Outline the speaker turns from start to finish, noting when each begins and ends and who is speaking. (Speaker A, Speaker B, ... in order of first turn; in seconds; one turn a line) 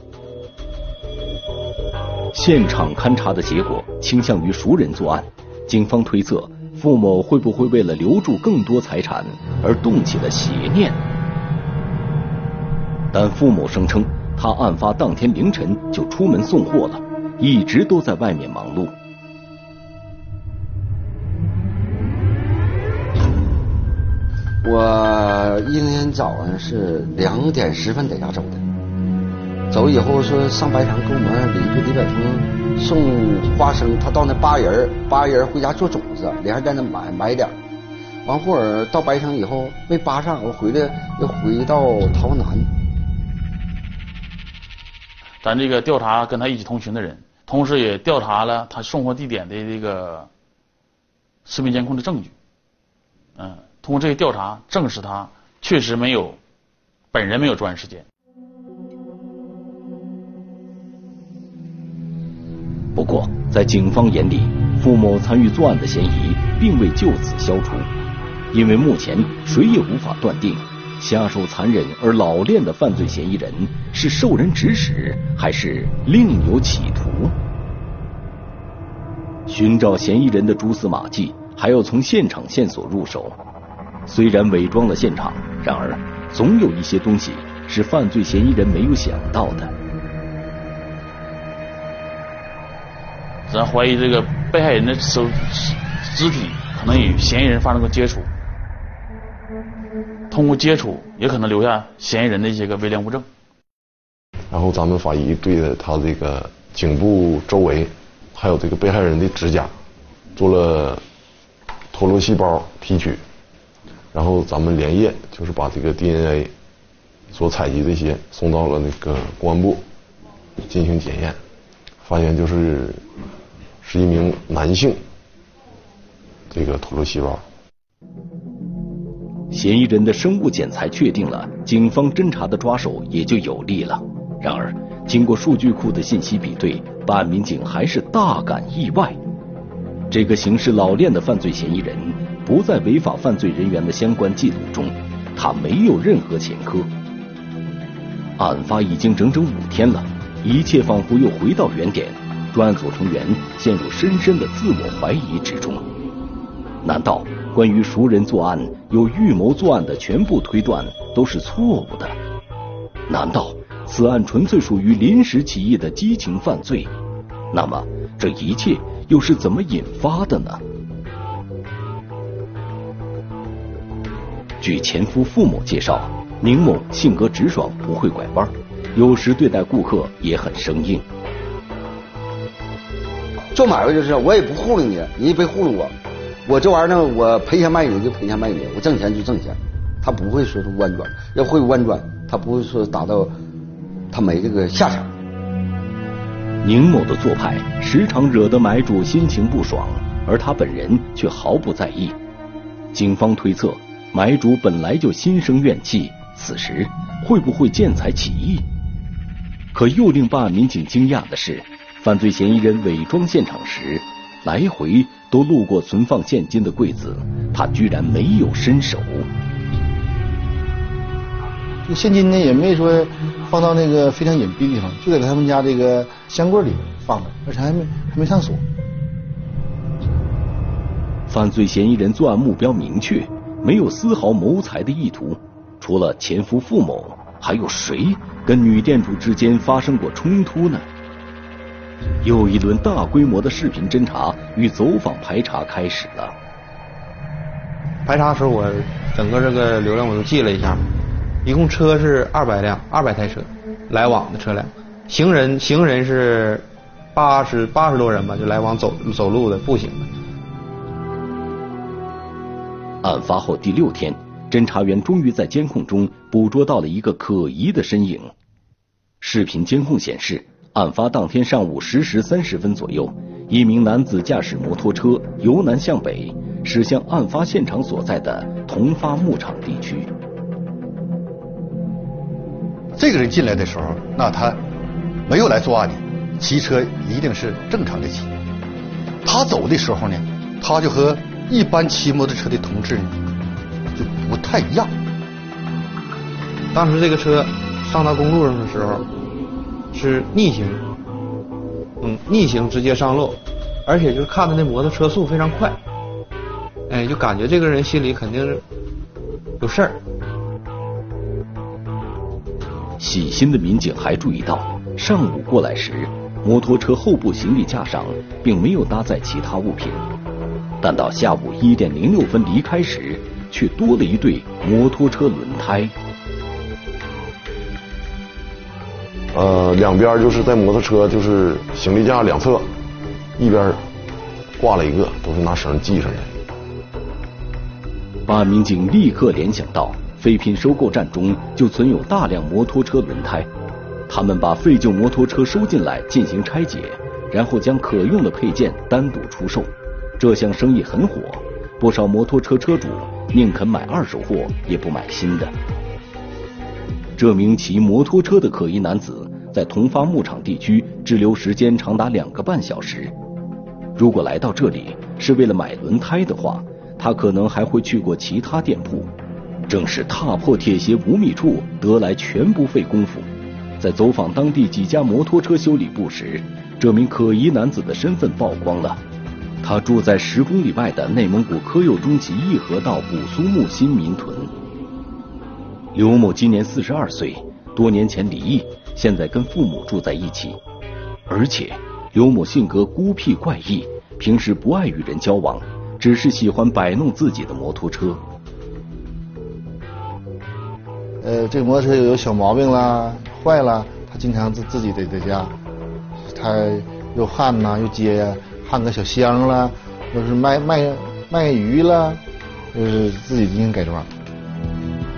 Speaker A: 2.3-11.0
Speaker A: 13.1-18.9
Speaker B: 24.6-28.6
Speaker B: 29.7-37.5
Speaker B: 38.2-42.7
Speaker C: 45.4-50.3
Speaker C: 51.5-52.3
Speaker C: 53.4-56.4
Speaker C: 57.1-58.0
Speaker A: 63.0-67.9
Speaker A: 68.5-77.3
Speaker A: 79.5-83.4
Speaker A: 84.1-89.7
Speaker C: 93.5-98.3
Speaker C: 100.3-103.3
Speaker D: 104.5-109.7
Speaker D: 110.4-111.0
Speaker D: 111.9-113.2
Speaker D: 114.1-116.5
Speaker D: 117.3-119.8
Speaker D: 120.6-121.4
Speaker D: 122.0-123.1
Speaker D: 123.8-125.0
Speaker D: 126.5-127.4
Speaker A: 129.5-139.2
Speaker A: 140.1-146.9
Speaker A: 148.4-155.8
Speaker A: 156.8-162.2
Speaker A: 163.1-166.9
Speaker A: 167.5-170.6
Speaker A: 174.6-181.1
Speaker B: 183.5-185.9
Speaker B: 186.5-193.3
Speaker B: 194.1-195.1
Speaker A: 196.6-202.2
Speaker A: 202.9-208.7
Speaker A: 209.7-219.3
Speaker E: 221.8-228.7
Speaker A: 231.3-240.9
Speaker A: 242.2-246.3
Speaker F: 248.1-250.9
Speaker F: 251.4-260.1
Speaker A: 263.0-268.3
Speaker A: 269.2-280.1
Speaker G: 282.9-284.6
Speaker G: 285.2-288.3
Speaker G: 289.2-293.2
Speaker G: 293.9-294.9
Speaker F: 296.7-299.1
Speaker F: 299.9-300.9
Speaker F: 302.0-305.8
Speaker F: 306.9-308.6
Speaker F: 309.6-310.0
Speaker A: 313.0-320.0
Speaker A: 320.8-325.9
Speaker D: 329.3-332.7
Speaker D: 333.4-333.9
Speaker D: 334.6-336.4
Speaker A: 338.3-343.5
Speaker A: 344.1-355.5
Speaker A: 357.2-363.1
Speaker A: 364.0-369.1
Speaker A: 369.7-379.0
Speaker A: 379.6-384.5
Speaker A: 385.9-390.6
Speaker A: 391.3-398.2
Speaker E: 401.2-405.5
Speaker E: 406.2-414.1